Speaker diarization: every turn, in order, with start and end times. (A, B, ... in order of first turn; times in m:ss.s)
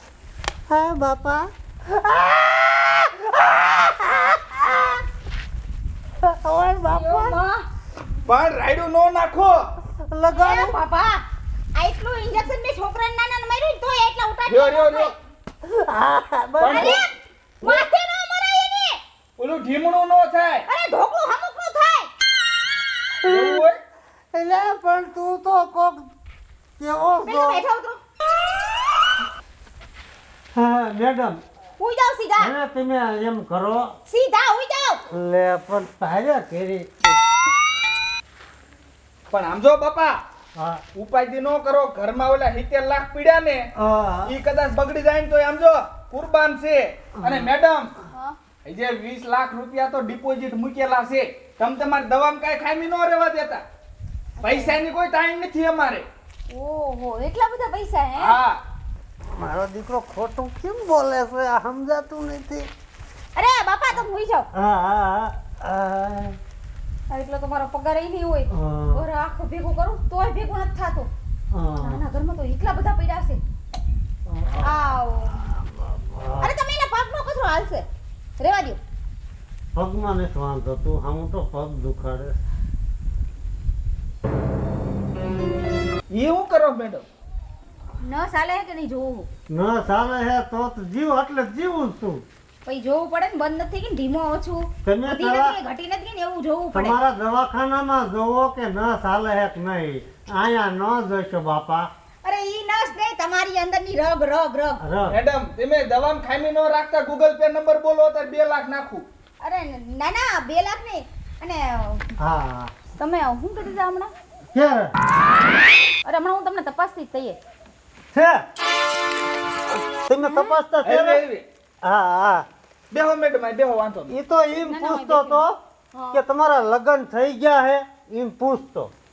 0:00.7-0:05.0 A
0:06.2-0:07.4 A
0:06.9-0:07.6 B
0:08.3-0:09.7 C
0:09.9-0:10.8 A
0:10.3-0:11.2 B
0:11.8-0:15.1 B
0:14.5-0:15.1 C
0:15.6-0:17.0 A
0:16.6-0:17.0 C
0:16.7-0:19.0 B
0:19.4-0:20.7 C
0:20.7-0:22.1 B
0:23.2-0:23.7 A
0:23.3-0:23.8 C
0:24.3-0:26.1 A
0:26.8-0:27.6 A
0:27.2-0:28.0 B
0:30.6-0:31.4 A
0:31.8-0:32.5 B
0:32.4-0:33.9 A
0:34.1-0:35.0 B
0:35.1-0:37.1 A
0:39.3-0:40.2 C
0:40.6-0:40.8 A
0:41.0-0:43.7 C
0:43.8-0:44.4 A
0:44.3-0:47.9 C
0:47.2-0:47.5 A
0:48.1-0:48.4 B
0:48.6-0:53.6 C
0:54.4-0:54.8 B
0:54.4-0:56.1 C
0:56.5-0:58.4 B
0:58.2-0:58.6 C
0:59.3-1:02.7 A
1:03.4-1:04.5 B
1:03.9-1:06.4 A
1:07.1-1:11.1 B
1:08.5-1:09.0 A
1:11.5-1:12.0 A
1:11.8-1:13.4 B
1:14.3-1:14.8 A
1:14.6-1:15.4 B
1:15.4-1:16.6 A
1:16.4-1:17.9 B
1:18.4-1:18.8 B
1:19.8-1:22.4 A
1:26.1-1:27.1 C
1:28.0-1:29.3 B
1:29.5-1:32.2 A
1:32.6-1:37.0 B
1:34.8-1:35.6 A
1:36.7-1:41.9 A
1:42.2-1:44.8 B
1:44.8-1:45.2 A
1:45.1-1:49.1 C
1:49.4-1:52.0 B
1:52.2-1:52.7 A
1:53.0-1:54.1 B
1:54.5-1:54.9 A
1:56.0-1:57.4 B
1:58.1-1:58.5 A
1:59.9-2:01.2 A
2:00.3-2:00.5 B
2:00.8-2:01.4 C
2:01.8-2:02.5 A
2:02.9-2:04.1 C
2:04.1-2:05.6 A
2:04.7-2:06.2 B
2:06.1-2:08.9 A